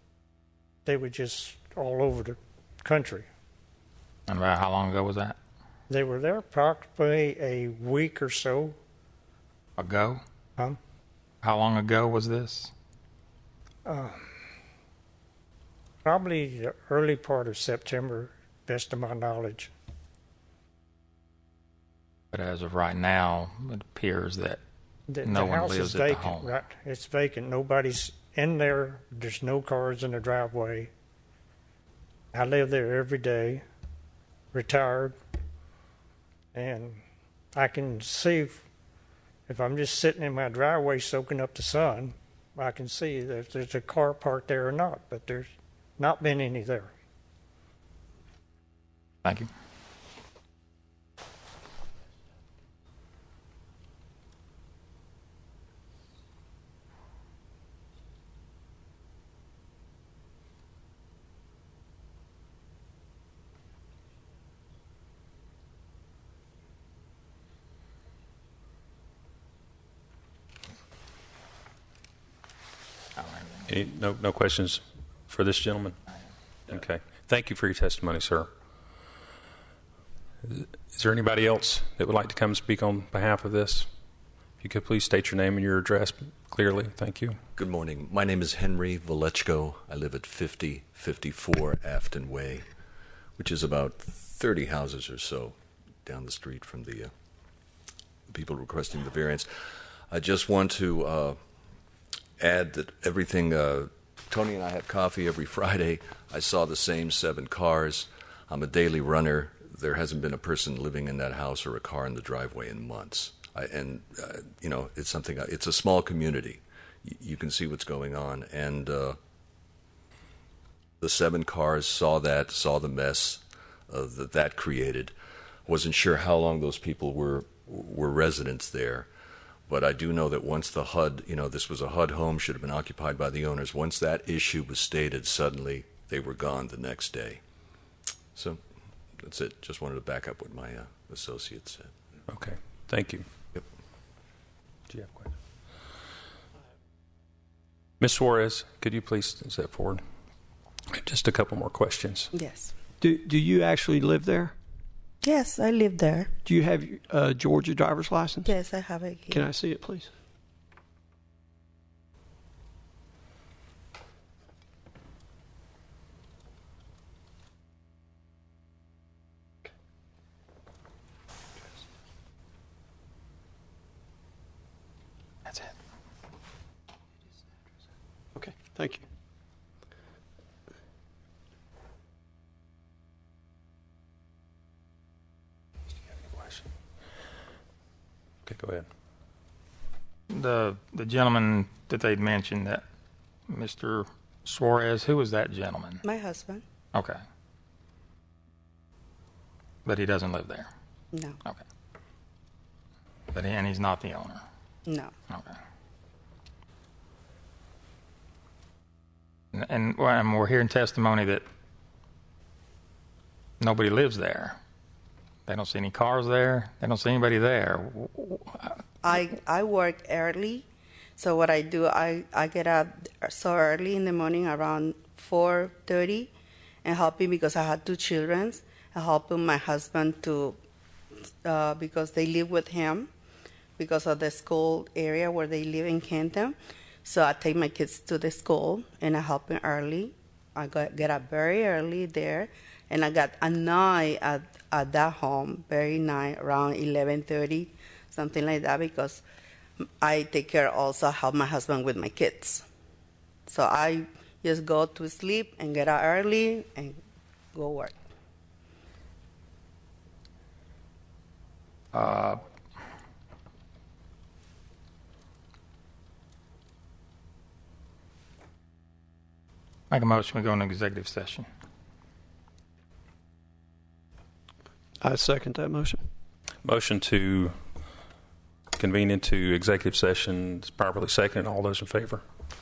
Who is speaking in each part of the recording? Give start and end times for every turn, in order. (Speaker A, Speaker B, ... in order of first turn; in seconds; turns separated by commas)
Speaker A: 0.8-3.3, Speaker B: 4.3-5.4, Speaker A: 5.9-8.8, Speaker B: 9.8-10.2, Speaker B: 11.4-12.7, Speaker A: 13.9-14.3, Speaker A: 16.0-19.7, Speaker B: 22.3-24.6, Speaker A: 25.1-30.9, Speaker B: 25.2-26.5, Speaker A: 32.3-33.6, Speaker A: 34.5-35.2, Speaker A: 36.5-37.0, Speaker A: 37.5-38.6, Speaker A: 39.5-46.9, Speaker B: 49.2-49.5, Speaker B: 73.2-73.7, Speaker C: 73.7-76.0, Speaker C: 76.7-78.5, Speaker C: 80.5-83.9, Speaker C: 84.6-87.4, Speaker D: 87.5-92.7, Speaker D: 93.4-97.1, Speaker D: 98.3-99.5, Speaker D: 100.1-101.4, Speaker D: 102.4-119.2, Speaker D: 121.0-125.1, Speaker D: 125.7-129.1, Speaker D: 129.7-137.4, Speaker D: 138.3-138.6, Speaker D: 139.2-141.9, Speaker C: 142.3-143.3, Speaker C: 144.9-145.3, Speaker C: 148.0-150.0, Speaker C: 150.9-152.3, Speaker E: 152.3-152.7, Speaker F: 153.0-154.6, Speaker E: 155.2-156.3, Speaker F: 156.4-158.5, Speaker E: 158.4-159.5, Speaker F: 159.3-160.1, Speaker B: 175.4-175.8, Speaker F: 178.3-179.0, Speaker C: 186.1-186.7, Speaker C: 188.5-188.9, Speaker B: 190.3-192.8, Speaker B: 193.5-196.0, Speaker E: 196.0-196.6, Speaker B: 196.9-197.2, Speaker B: 199.8-200.7, Speaker E: 201.1-201.4, Speaker B: 203.3-204.4, Speaker E: 204.9-205.1, Speaker B: 205.3-205.6, Speaker B: 209.5-211.4, Speaker B: 213.6-214.6, Speaker B: 215.5-218.8, Speaker E: 219.0-220.7, Speaker E: 221.2-226.3, Speaker E: 226.8-230.6, Speaker E: 231.4-233.1, Speaker E: 233.8-249.2, Speaker E: 249.8-252.6, Speaker E: 253.5-257.0, Speaker E: 257.5-257.9, Speaker B: 261.9-262.4, Speaker B: 269.9-271.5, Speaker F: 275.0-276.1, Speaker C: 276.6-277.6, Speaker C: 278.8-282.2